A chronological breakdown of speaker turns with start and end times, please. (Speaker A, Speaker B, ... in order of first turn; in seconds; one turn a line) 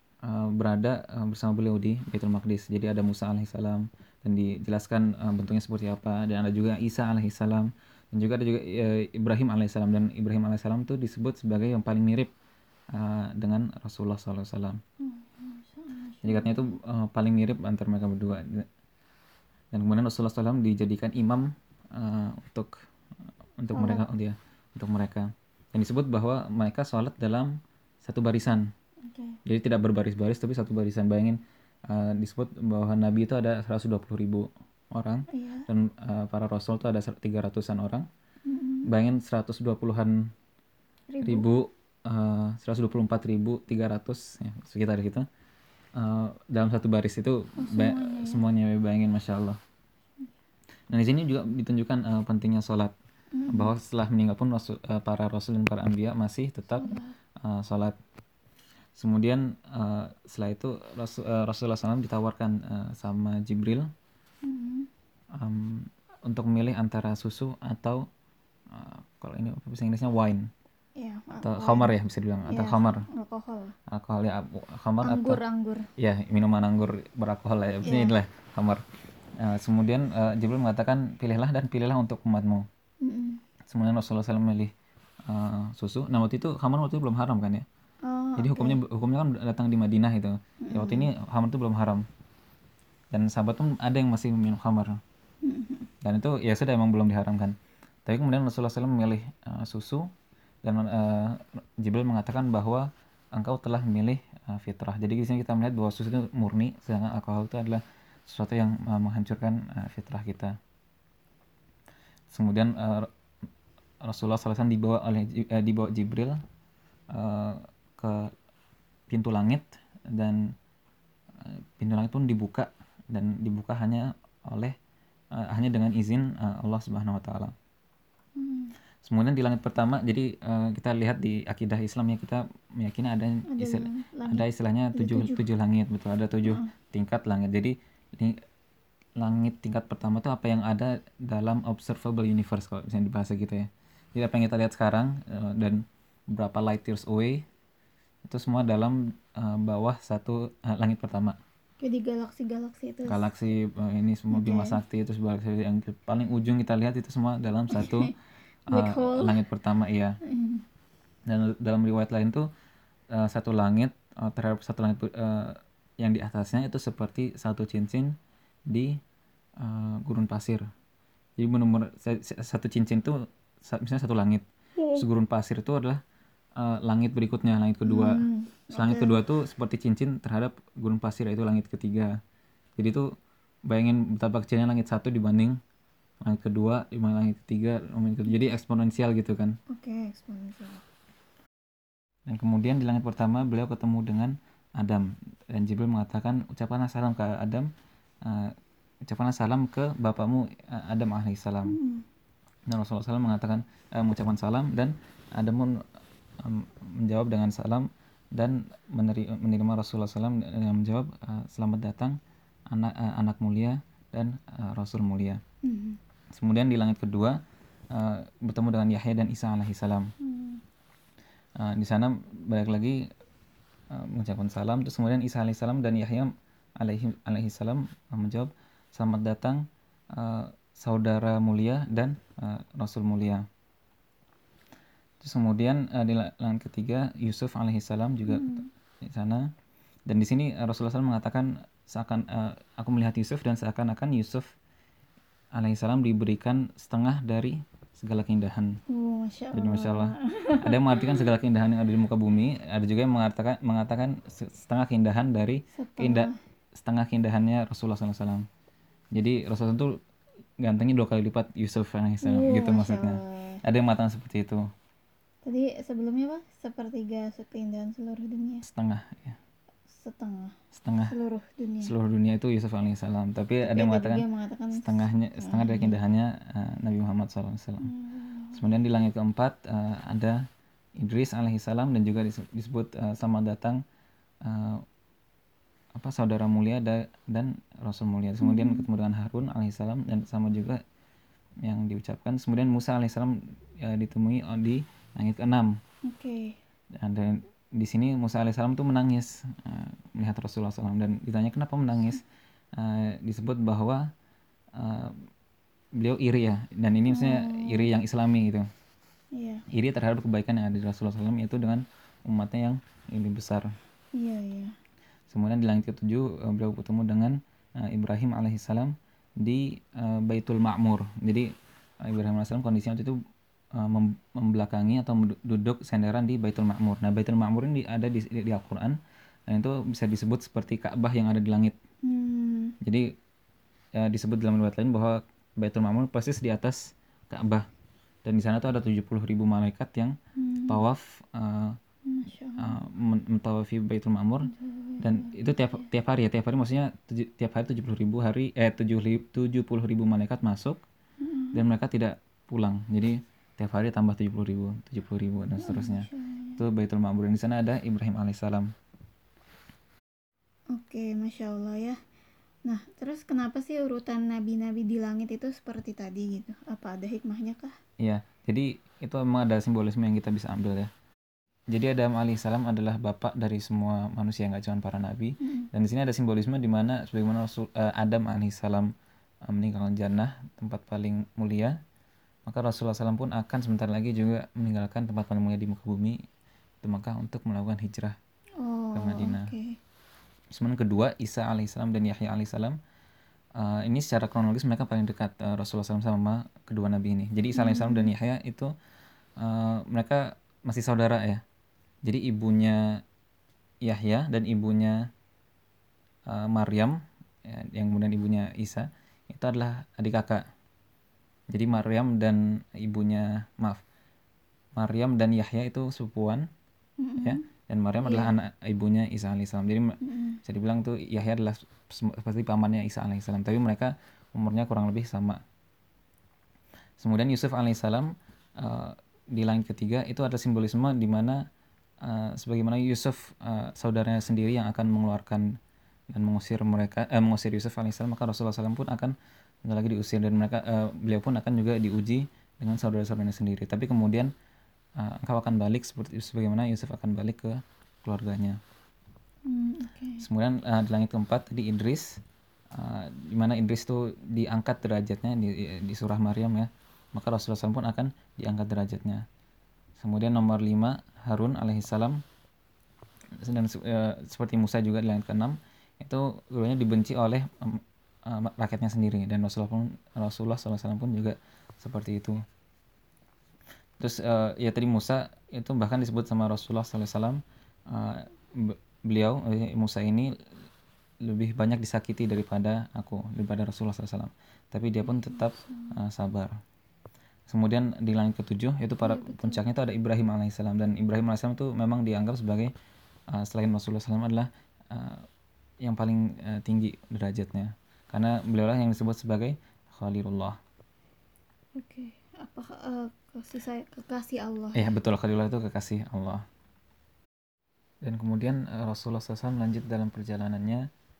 Speaker A: 0.2-12.3
Speaker A: 12.9-14.8
Speaker B: 15.0-16.6
Speaker A: 16.2-18.7
Speaker A: 19.7-22.7
Speaker A: 23.6-28.7
Speaker B: 23.7-24.0
Speaker B: 29.0-29.4
Speaker A: 29.4-38.1
Speaker B: 35.3-35.7
Speaker B: 38.4-38.9
Speaker A: 38.8-40.3
Speaker B: 41.1-41.5
Speaker A: 41.2-45.3
Speaker A: 46.0-49.6
Speaker B: 47.6-48.4
Speaker A: 50.9-52.9
Speaker B: 53.3-53.7
Speaker A: 53.5-58.0
Speaker B: 56.8-57.1
Speaker A: 59.0-63.9
Speaker B: 64.4-64.9
Speaker A: 65.3-68.0
Speaker A: 68.7-70.5
Speaker B: 70.9-71.9
Speaker A: 71.4-73.1
Speaker B: 72.5-73.7
Speaker A: 73.9-75.4
Speaker B: 75.0-75.9
Speaker A: 76.0-78.8
Speaker B: 77.8-78.1
Speaker A: 79.4-82.7
Speaker B: 83.0-83.4
Speaker A: 83.7-84.7
Speaker A: 85.3-87.7
Speaker B: 88.0-88.8
Speaker A: 88.4-92.0
Speaker B: 90.6-91.1
Speaker A: 93.1-95.0
Speaker B: 95.4-95.9
Speaker A: 96.0-100.1
Speaker A: 100.6-110.5
Speaker A: 112.3-113.1
Speaker A: 114.0-116.4
Speaker A: 117.1-118.3
Speaker A: 119.1-120.5
Speaker A: 121.4-124.8
Speaker A: 125.3-127.5
Speaker B: 128.3-128.7
Speaker A: 129.0-138.4
Speaker B: 133.5-135.4
Speaker A: 139.2-147.4
Speaker A: 148.2-151.4
Speaker B: 151.8-153.2
Speaker A: 153.0-158.1
Speaker B: 154.3-154.8
Speaker B: 157.7-158.1
Speaker A: 158.7-160.2
Speaker B: 158.7-159.4
Speaker B: 160.2-160.6
Speaker A: 161.3-162.5
Speaker A: 163.1-168.1
Speaker A: 168.7-169.0
Speaker A: 169.6-170.7
Speaker A: 171.4-176.0
Speaker A: 176.6-182.2
Speaker B: 177.8-179.1
Speaker A: 182.8-183.1
Speaker A: 183.7-185.6
Speaker A: 186.2-189.6
Speaker B: 189.7-190.8
Speaker A: 192.3-197.7
Speaker A: 198.2-198.6
Speaker A: 199.1-201.8
Speaker B: 201.7-202.1
Speaker A: 202.7-205.8
Speaker A: 206.4-212.2
Speaker A: 212.7-215.4
Speaker B: 215.6-216.0
Speaker A: 216.3-217.4
Speaker A: 217.9-220.1
Speaker B: 220.2-220.6
Speaker A: 221.6-223.1
Speaker A: 223.9-233.4
Speaker A: 235.2-239.5
Speaker B: 238.3-238.7
Speaker A: 240.1-244.5
Speaker A: 245.5-248.8
Speaker B: 248.9-251.2
Speaker A: 249.5-258.4
Speaker B: 255.7-256.4
Speaker A: 259.1-260.0
Speaker A: 260.6-264.7
Speaker B: 262.2-263.6
Speaker B: 265.4-268.6
Speaker A: 268.6-269.4
Speaker B: 269.9-270.5
Speaker A: 270.7-271.1
Speaker B: 271.1-271.9
Speaker A: 271.8-277.9
Speaker B: 273.6-276.0
Speaker B: 277.8-278.6
Speaker A: 278.5-280.4
Speaker A: 281.0-283.8
Speaker A: 284.4-284.8
Speaker A: 285.9-290.8
Speaker B: 288.4-288.9
Speaker A: 291.6-295.8
Speaker B: 296.0-296.6
Speaker A: 296.9-302.2
Speaker A: 302.7-304.1
Speaker A: 304.8-305.2
Speaker A: 306.0-308.6
Speaker B: 307.1-307.9
Speaker B: 309.3-309.6
Speaker A: 309.7-313.7
Speaker B: 314.1-314.8
Speaker A: 315.3-321.5
Speaker A: 322.0-323.2
Speaker A: 323.7-331.8
Speaker B: 332.0-332.8
Speaker A: 332.8-333.1
Speaker A: 333.9-337.7
Speaker A: 338.2-340.2
Speaker B: 340.4-340.8
Speaker A: 340.7-341.8
Speaker B: 342.0-342.7
Speaker A: 342.6-350.8
Speaker B: 344.4-345.9
Speaker B: 351.2-351.6
Speaker A: 351.5-358.7
Speaker B: 355.6-356.6
Speaker B: 360.7-362.0
Speaker B: 362.6-367.8
Speaker A: 368.0-370.9
Speaker A: 371.7-378.9
Speaker B: 375.4-375.7
Speaker A: 379.4-381.8
Speaker A: 382.4-386.2
Speaker A: 386.8-388.1
Speaker B: 388.6-389.8
Speaker A: 388.9-389.5
Speaker A: 390.5-392.8
Speaker A: 393.6-398.7
Speaker B: 397.5-398.1
Speaker A: 399.4-401.4
Speaker A: 402.0-403.0
Speaker A: 403.8-405.1
Speaker A: 406.3-410.4
Speaker A: 411.5-413.8
Speaker A: 414.8-416.5
Speaker B: 417.0-417.4
Speaker A: 417.2-425.4
Speaker B: 418.0-418.3
Speaker B: 420.0-420.4
Speaker A: 427.0-431.4
Speaker A: 432.0-435.5
Speaker A: 436.1-444.3
Speaker A: 445.0-448.6
Speaker B: 449.4-450.2
Speaker A: 450.2-452.2
Speaker A: 452.7-459.2
Speaker A: 460.0-462.2
Speaker A: 463.4-472.4
Speaker A: 474.0-480.3
Speaker A: 481.2-486.6
Speaker B: 485.1-485.9
Speaker A: 487.5-492.7
Speaker B: 489.0-489.6
Speaker A: 493.3-495.2
Speaker A: 495.8-500.6
Speaker B: 501.8-504.9
Speaker A: 504.7-506.4
Speaker A: 508.0-510.9